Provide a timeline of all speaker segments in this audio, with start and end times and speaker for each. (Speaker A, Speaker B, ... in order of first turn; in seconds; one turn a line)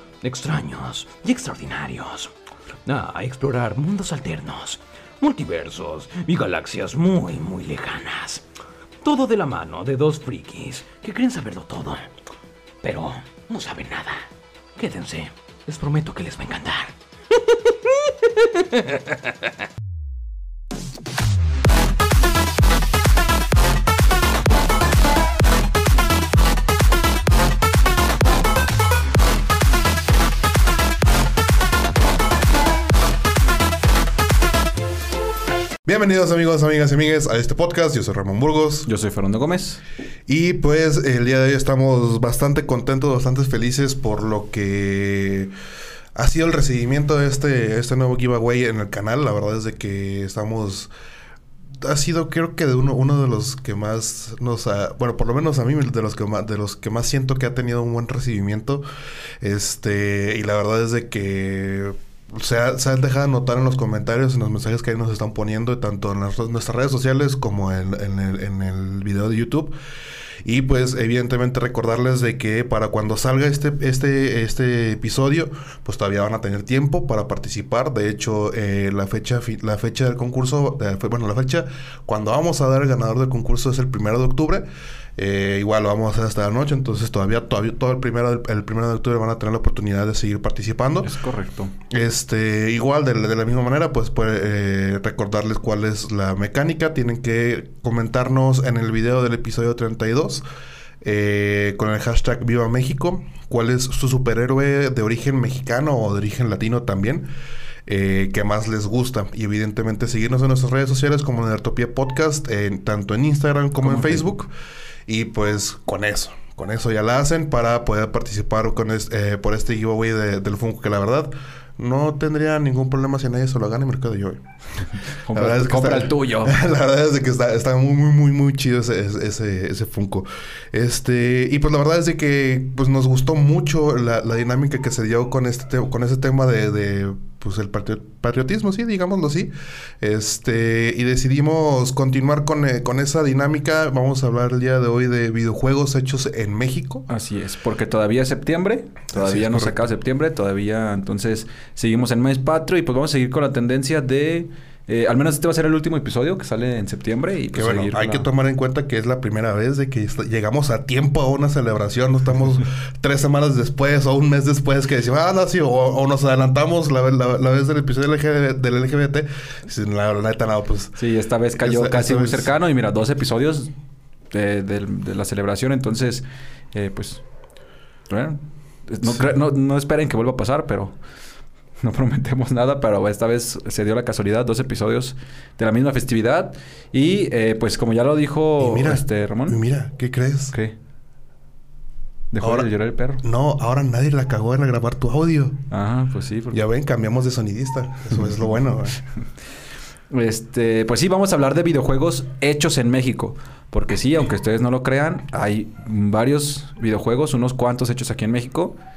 Speaker A: 0.2-2.3
Speaker A: 2.9-8.4
Speaker A: 9.0-12.1
Speaker A: 12.8-19.3
Speaker B: 35.8-38.9
Speaker C: 38.9-39.8
Speaker B: 40.3-45.5
Speaker B: 46.1-50.9
Speaker B: 51.8-58.8
Speaker B: 59.4-69.7
Speaker B: 70.4-84.7
Speaker B: 85.2-91.1
Speaker C: 91.0-91.7
Speaker B: 91.9-100.4
Speaker B: 101.0-107.3
Speaker B: 107.8-114.5
Speaker C: 113.8-114.4
Speaker B: 115.1-124.4
Speaker C: 125.2-126.6
Speaker B: 125.3-147.1
Speaker C: 147.1-158.3
Speaker B: 149.1-149.9
Speaker B: 157.5-171.0
Speaker C: 171.0-173.7
Speaker B: 171.6-172.5
Speaker C: 174.3-177.2
Speaker C: 178.1-180.9
Speaker B: 179.1-179.3
Speaker C: 181.8-189.6
Speaker B: 188.6-190.5
Speaker C: 192.3-193.2
Speaker B: 192.4-192.7
Speaker B: 193.2-195.6
Speaker C: 195.7-196.6
Speaker B: 196.5-199.0
Speaker C: 200.1-208.8